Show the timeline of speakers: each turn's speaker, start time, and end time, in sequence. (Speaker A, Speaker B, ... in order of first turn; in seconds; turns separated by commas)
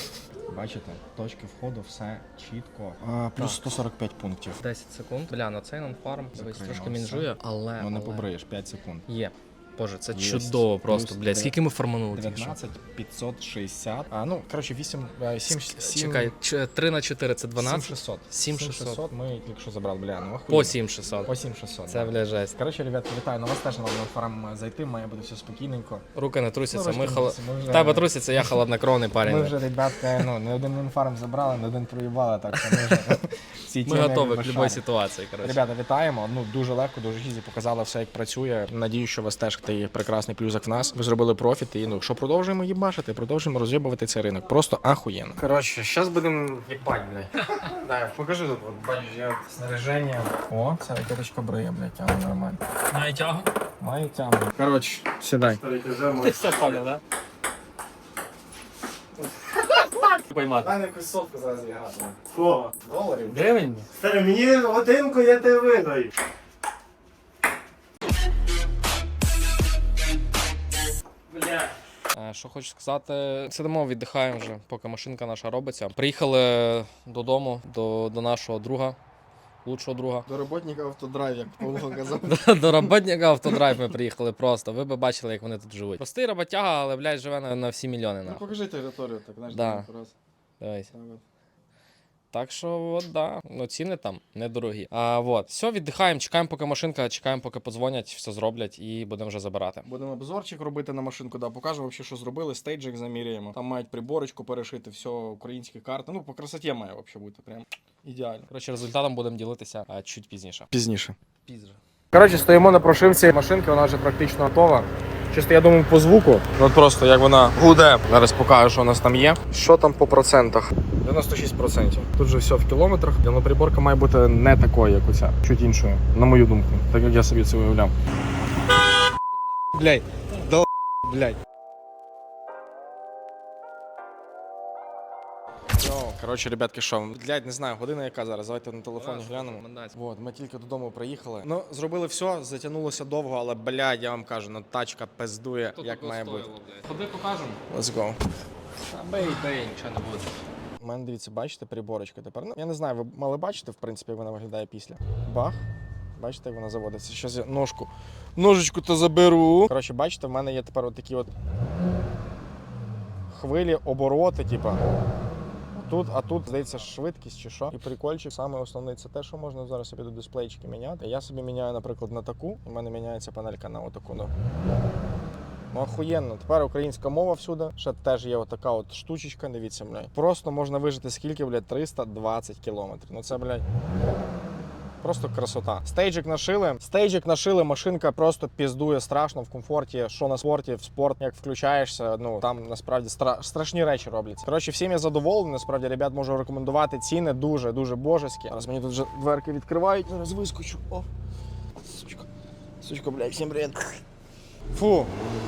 Speaker A: 0.5-4.6, Speaker B: 4.6-8.3, Speaker A: 6.3-9.1, Speaker B: 9.1-12.6, Speaker A: 10.1-11.5, Speaker A: 12.1-16.3, Speaker B: 15.5-19.0, Speaker A: 17.6-26.0, Speaker B: 20.5-21.3, Speaker B: 21.9-22.5, Speaker B: 26.1-29.6, Speaker A: 26.7-28.1, Speaker A: 29.2-34.8, Speaker B: 32.5-33.1, Speaker B: 33.9-35.6, Speaker A: 35.4-52.6, Speaker B: 52.9-53.5, Speaker A: 53.8-55.6, Speaker C: 55.7-56.8, Speaker B: 56.1-57.0, Speaker B: 60.2-60.7, Speaker A: 60.6-63.5, Speaker C: 62.3-62.6, Speaker B: 63.3-63.9, Speaker C: 63.9-66.1, Speaker B: 71.3-79.0, Speaker B: 79.6-80.2, Speaker A: 80.3-82.9, Speaker B: 82.2-88.5, Speaker A: 88.2-90.1, Speaker B: 89.5-89.9, Speaker B: 90.6-90.9, Speaker A: 90.9-91.2, Speaker B: 92.3-99.9, Speaker A: 99.8-108.5, Speaker B: 108.5-110.7, Speaker A: 110.7-111.2, Speaker B: 111.5-111.8, Speaker A: 112.1-127.9, Speaker A: 129.7-131.4, Speaker A: 135.8-146.5, Speaker B: 139.0-139.9, Speaker B: 145.8-147.6, Speaker A: 147.7-148.2, Speaker B: 148.8-150.3, Speaker A: 150.8-155.6, Speaker A: 156.2-161.3, Speaker A: 163.3-164.8, Speaker A: 165.8-174.3, Speaker A: 175.7-183.6, Speaker A: 185.0-201.1, Speaker A: 201.8-202.3, Speaker A: 202.8-204.0, Speaker A: 204.7-205.1